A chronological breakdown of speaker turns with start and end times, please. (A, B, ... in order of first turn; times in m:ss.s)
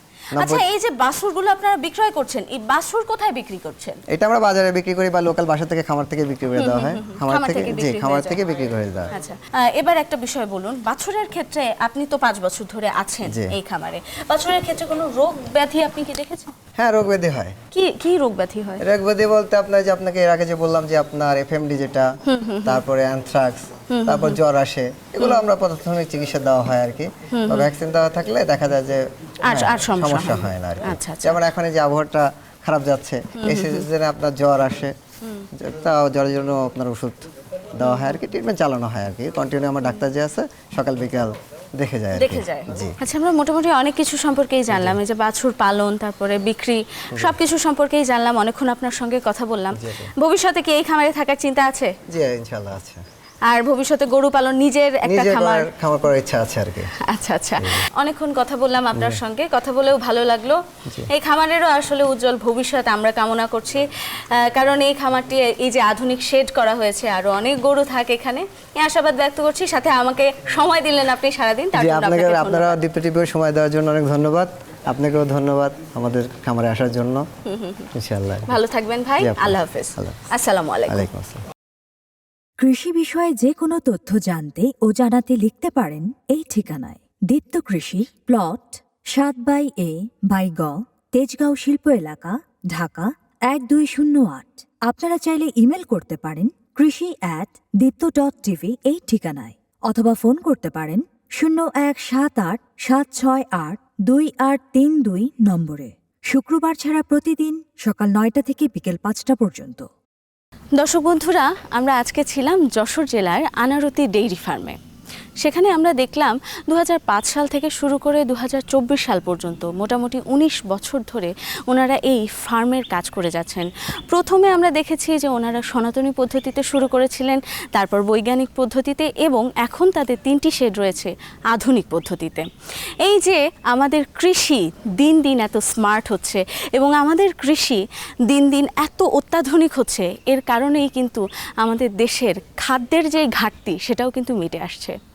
0:00.4-0:00.6 A
0:00.4-0:04.0 B
0:04.1-0:09.1 A
0:06.6-0:08.4 B
0:09.1-0:16.5 B
0:13.3-0:13.6 A
0:16.8-0:17.6 A
0:17.7-0:18.8 B
0:18.8-0:22.1 A
0:22.2-0:22.8 B
0:22.6-0:34.9 A
0:23.9-0:24.4 B
0:25.2-0:25.4 B
0:27.3-0:27.7 B
0:29.4-0:31.4 B
0:33.4-0:33.9 B
0:35.5-0:43.0 A
0:42.1-0:52.0 B
0:44.7-0:45.0 A
0:49.8-0:50.1 A
0:52.1-0:53.0 A
0:53.5-0:55.7 B
0:55.0-0:56.9 A
0:57.0-1:12.8 B
0:57.6-0:57.8 A
0:59.0-0:59.2 A
1:11.7-1:17.2 A
1:17.5-1:17.9 B
1:17.9-1:18.5 A
1:18.5-1:21.1 B
1:19.2-1:20.2 A
1:20.9-1:21.4 A
1:22.6-1:49.9 C
1:50.8-1:54.8 B
1:55.4-2:12.5 B
2:13.0-2:25.0 B